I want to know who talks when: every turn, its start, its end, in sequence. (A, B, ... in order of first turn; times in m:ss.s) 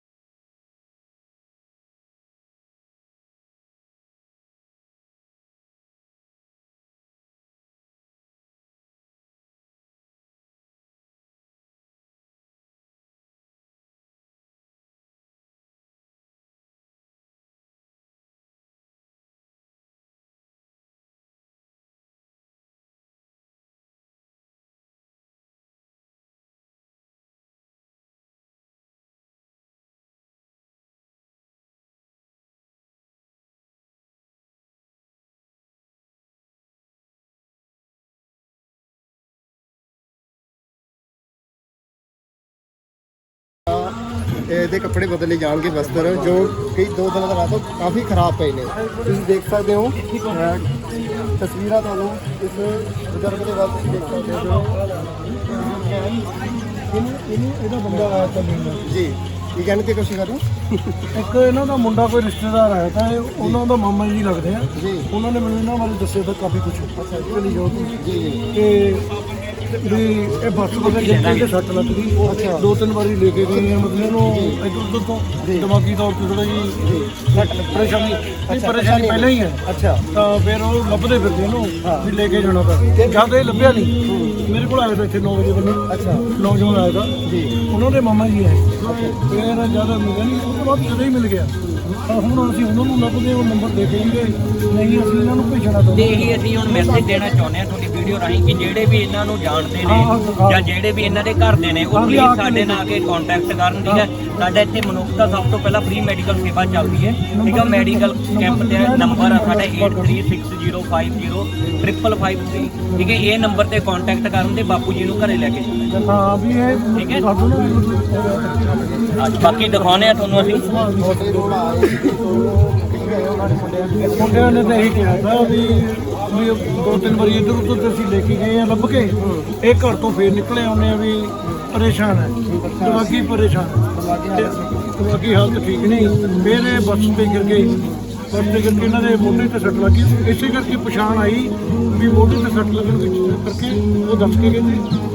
0:43.7-0:43.9 A
0:44.5-0:50.7 A
0:50.0-0:50.6 B
0:51.4-0:56.2 A
0:56.9-0:58.9 C
0:57.9-1:01.0 A
1:01.1-1:08.0 C
1:04.8-1:05.1 A
1:07.0-1:08.5 A
1:08.5-1:25.8 C
1:10.7-1:11.5 B
1:12.2-1:12.7 A
1:13.4-1:14.6 A
1:15.4-1:15.7 A
1:16.8-1:20.1 A
1:21.8-1:22.1 A
1:23.0-1:23.2 A
1:24.1-1:24.4 A
1:25.9-1:26.3 A
1:26.4-1:27.2 C
1:27.2-1:27.6 A
1:27.7-1:31.5 C
1:28.8-1:29.2 A
1:32.1-1:36.4 C
1:35.9-1:56.0 B
1:36.7-1:37.2 A
1:39.8-1:40.7 C
1:41.9-1:42.8 C
1:47.3-1:50.2 C
1:56.0-2:01.6 C
1:57.0-1:57.3 B
1:59.2-2:00.7 B
2:00.4-2:05.8 A
2:04.2-2:17.8 C
2:09.2-2:09.5 A
2:12.4-2:13.2 A
2:13.9-2:15.0 A
2:18.3-2:24.9 C